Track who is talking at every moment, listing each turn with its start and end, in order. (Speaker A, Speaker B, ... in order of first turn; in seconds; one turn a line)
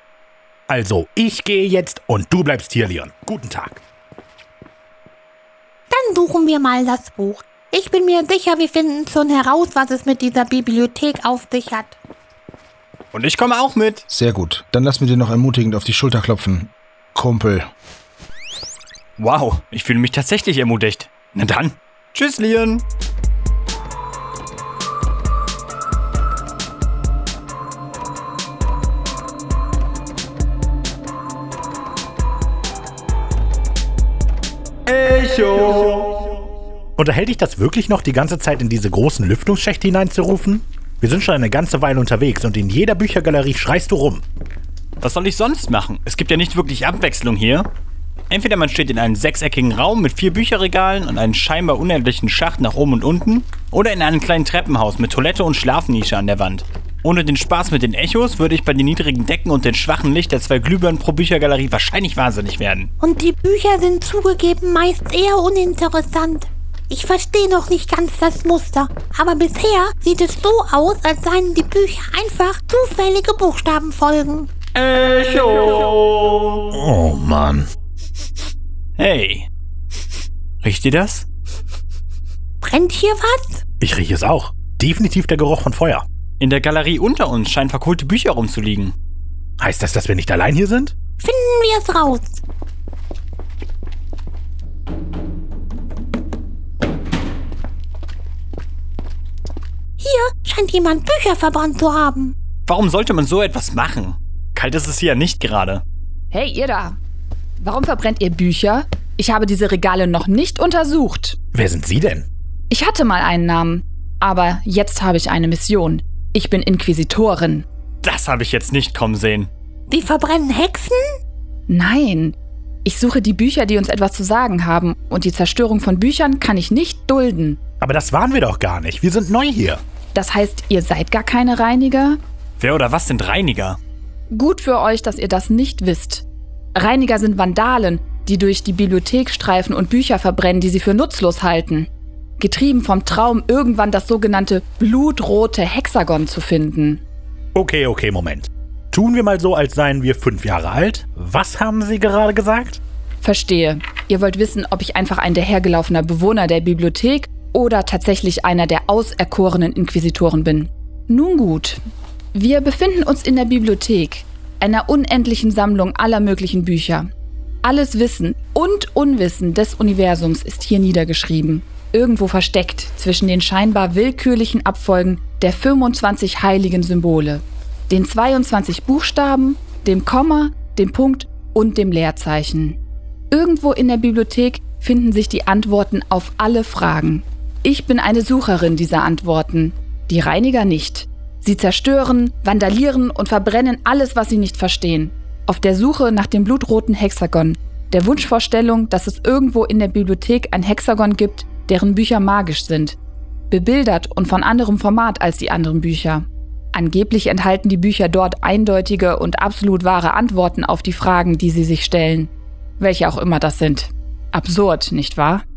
Speaker A: 0.7-3.8
Speaker B: 5.9-12.0
Speaker C: 13.1-14.0
Speaker D: 14.1-17.7
Speaker C: 19.2-22.8
Speaker C: 34.9-36.3
Speaker A: 37.0-44.2
Speaker C: 45.0-47.7
Speaker C: 48.3-62.9
Speaker B: 63.0-74.5
Speaker C: 74.7-76.6
Speaker A: 76.7-77.7
Speaker C: 79.0-79.5
Speaker C: 80.6-81.2
Speaker B: 82.6-83.6
Speaker A: 83.8-86.0
Speaker C: 86.4-88.9
Speaker A: 89.6-90.9
Speaker B: 91.2-92.4
Speaker B: 100.0-102.3
Speaker C: 102.7-105.8
Speaker E: 106.3-107.0
Speaker E: 107.6-111.4
Speaker A: 111.5-112.3
Speaker E: 112.7-117.6
Speaker C: 118.0-119.5
Speaker B: 119.9-121.0
Speaker E: 121.7-127.6
Speaker A: 127.8-129.8
Speaker E: 130.1-132.2
Speaker C: 132.6-133.8
Speaker E: 134.3-147.0
Speaker A: 147.5-152.8
Speaker E: 153.2-161.8
Speaker E: 162.3-167.1
Speaker E: 167.6-182.8
Speaker E: 183.3-203.0
Speaker E: 203.5-215.4